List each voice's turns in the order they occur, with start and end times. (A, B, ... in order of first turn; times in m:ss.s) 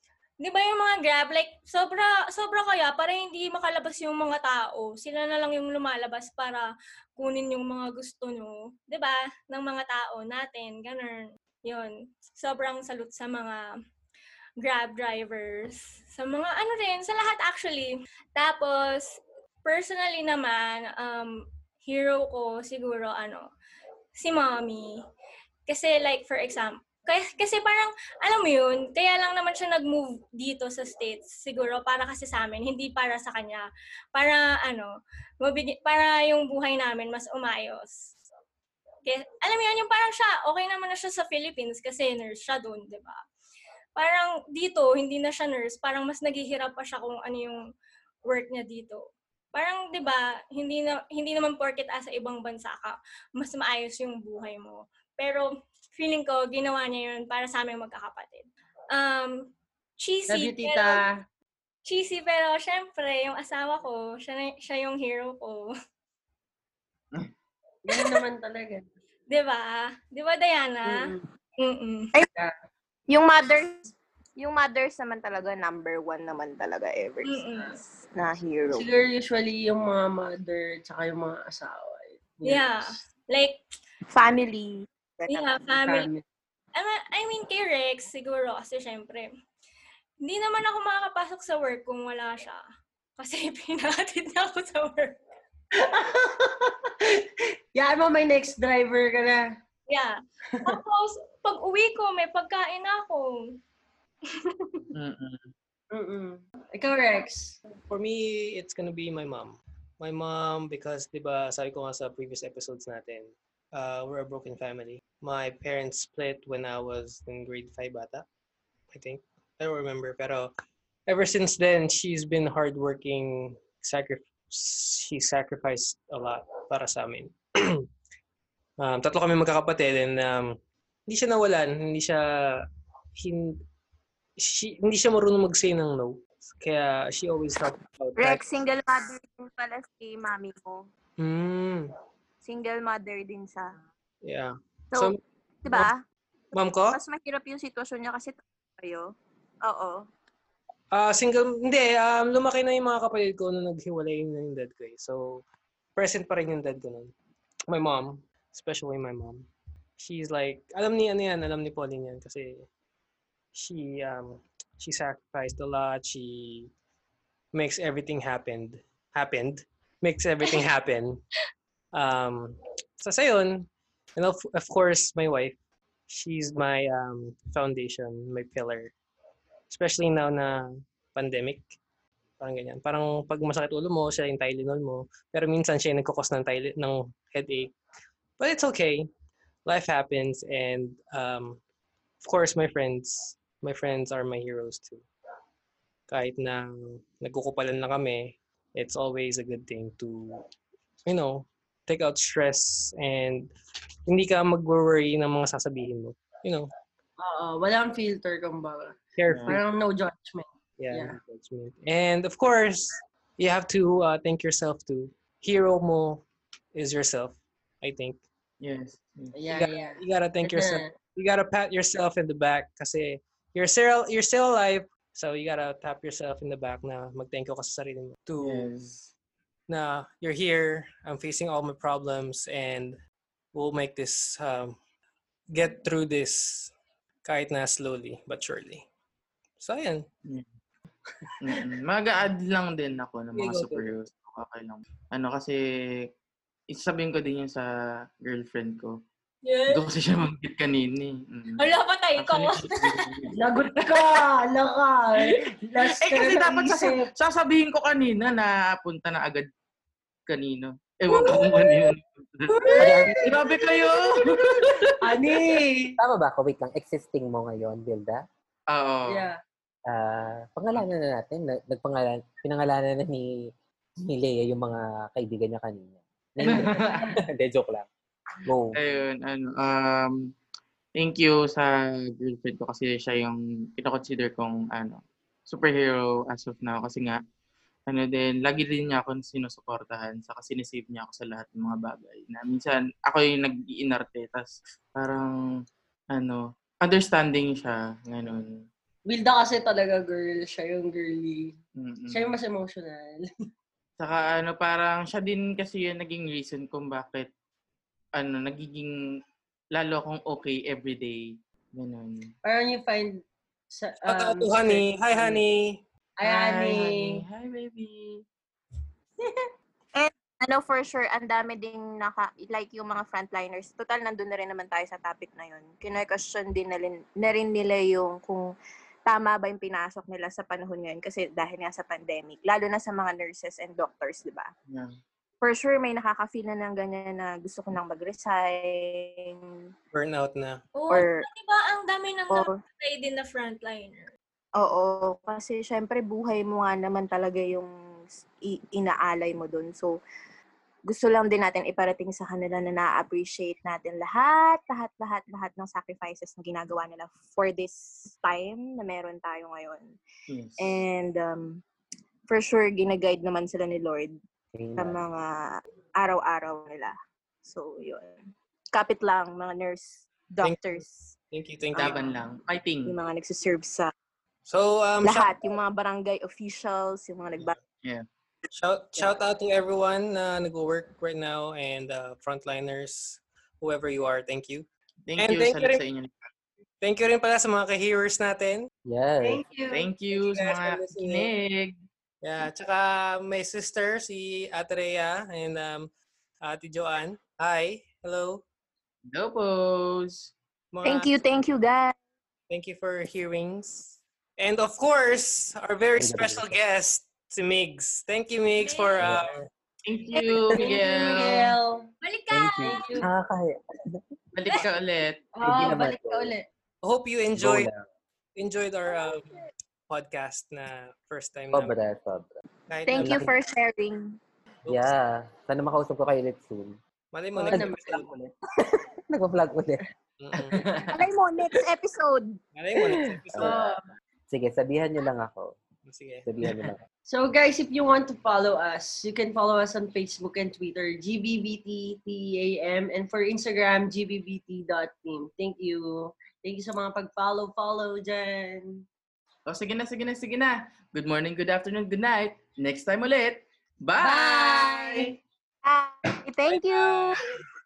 0:00.4-0:13.6 A
0:14.6-0:23.5 A
0:24.2-0:24.9 A
0:25.7-0:38.1 A
0:39.0-0:43.2 A
0:44.0-0:47.6 A
0:48.3-1:01.0 A
1:00.3-1:01.1 B
1:01.8-1:05.7 A
1:07.9-1:08.8 B
1:09.3-1:12.1 A
1:10.8-1:11.2 B
1:13.1-1:18.9 C
1:17.2-1:17.8 A
1:18.7-1:23.0 B
1:22.4-1:23.6 A
1:24.1-1:25.6 C
1:25.3-1:26.1 A
1:25.7-1:26.2 B
1:26.8-1:29.3 A
1:30.2-1:32.6 A
1:33.2-1:35.2 A
1:35.8-1:37.2 B
1:37.7-1:39.5 B
1:39.9-1:43.6 A
1:44.3-1:44.9 A
1:44.9-1:45.5 D
1:45.9-1:47.6 B
1:47.9-1:58.2 E
1:58.9-2:00.5 E
2:01.1-2:07.8 E
2:08.8-2:10.5 E
2:11.1-2:12.6 E
2:13.2-2:13.6 E
2:14.4-2:18.4 E
2:18.2-2:20.9 C
2:21.2-2:21.9 E
2:22.4-2:23.7 C
2:24.2-2:25.2 E
2:24.9-2:26.0 C
2:26.5-2:27.0 E
2:26.9-2:29.1 C
2:29.6-2:30.0 C
2:30.9-2:35.4 E
2:36.0-2:37.1 E
2:37.7-2:39.5 E
2:40.0-2:42.6 E
2:43.5-2:46.7 E
2:47.5-2:51.2 E
2:51.9-2:55.5 E
2:56.1-2:58.9 E
2:59.7-3:01.6 E
3:02.4-3:07.7 E
3:08.4-3:09.1 E
3:09.6-3:11.6 E
3:12.2-3:15.0 E
3:16.1-3:20.4 E
3:21.0-3:23.5 E
3:24.1-3:26.7 E
3:27.2-3:31.2 B
3:29.2-3:29.6 E
3:29.3-3:29.6 D
3:30.8-3:38.2 E
3:38.6-3:39.3 D
3:39.3-3:40.9 B
3:39.5-3:48.7 E
3:48.4-3:49.1 D
3:49.7-3:53.0 E
3:53.5-3:54.8 E
3:55.5-3:56.7 E
3:57.2-3:58.8 E
3:59.6-4:00.0 E
4:01.4-4:06.1 D
4:03.3-4:03.9 E
4:06.7-4:07.7 D
4:08.2-4:09.0 D
4:09.4-4:09.8 A
4:09.7-4:11.6 D
4:11.6-4:13.1 A
4:12.2-4:13.3 D
4:13.4-4:17.1 B
4:15.8-4:19.5 D
4:20.3-4:25.3 D
4:22.5-4:26.0 B
4:22.8-4:23.4 F
4:26.0-4:28.2 F
4:28.7-4:29.3 D
4:29.1-4:29.4 B
4:29.9-4:33.3 F
4:34.0-4:37.9 F
4:36.4-4:37.1 D
4:36.5-4:37.0 B
4:38.4-4:38.8 F
4:38.7-4:40.2 D
4:41.0-4:47.2 D
4:47.9-4:55.4 D
4:56.1-4:58.6 D
4:59.1-5:01.5 B
5:01.8-5:02.4 D
5:02.1-5:03.3 B
5:04.0-5:07.3 D
5:08.2-5:08.9 D
5:09.7-5:12.3 D
5:12.4-5:15.4 B
5:14.1-5:15.8 E
5:16.2-5:17.2 B
5:16.2-5:18.2 D
5:20.0-5:28.5 C
5:29.1-5:34.5 C
5:35.4-5:39.4 C
5:39.9-5:40.6 E
5:40.7-5:44.1 A
5:40.9-5:41.2 C
5:42.3-5:42.6 C
5:44.6-5:47.7 C
5:48.4-5:50.0 C
5:50.9-6:00.0 C
6:00.3-6:00.8 D
6:00.6-6:01.6 C
6:02.3-6:04.1 C
6:04.5-6:05.0 F
6:04.8-6:11.1 C
6:10.4-6:12.1 E
6:11.7-6:13.0 D
6:12.9-6:13.9 C
6:14.5-6:15.3 E
6:15.0-6:17.6 C
6:18.5-6:24.6 E
6:25.1-6:26.2 D
6:25.2-6:25.8 E
6:26.8-6:28.7 E
6:28.9-6:29.4 F
6:29.2-6:29.9 B
6:29.7-6:31.8 D
6:30.1-6:31.3 E
6:32.2-6:35.9 E
6:36.4-6:38.4 E
6:39.1-6:40.3 D
6:40.7-6:41.1 E
6:40.8-6:41.9 C
6:42.5-6:49.4 E
6:46.0-6:46.5 F
6:48.6-6:49.1 A
6:49.0-6:49.3 F
6:49.8-6:51.6 D
6:50.5-6:51.9 B
6:52.0-6:53.1 A
6:52.3-6:54.0 F
6:52.6-6:53.1 B
6:54.3-6:55.3 D
6:55.4-6:56.5 B
6:55.4-6:56.3 F
6:56.8-6:57.7 E
6:57.4-6:57.8 F
6:58.4-6:59.3 E
6:59.9-7:01.7 E
7:01.5-7:02.3 F
7:02.7-7:03.3 E
7:02.9-7:04.2 C
7:02.9-7:03.3 F
7:04.6-7:04.9 E
7:04.6-7:06.8 F
7:07.1-7:08.1 E
7:07.4-7:09.8 F
7:07.5-7:08.0 B
7:10.2-7:10.6 E
7:10.5-7:11.0 B
7:10.9-7:12.4 C
7:12.6-7:13.6 E
7:13.2-7:13.7 F
7:13.4-7:13.8 B
7:14.3-7:15.6 F
7:15.8-7:16.3 E
7:16.2-7:16.8 F
7:17.1-7:28.8 B
7:29.5-7:35.1 D
7:34.0-7:35.1 B
7:35.6-7:37.2 C
7:36.4-7:37.2 E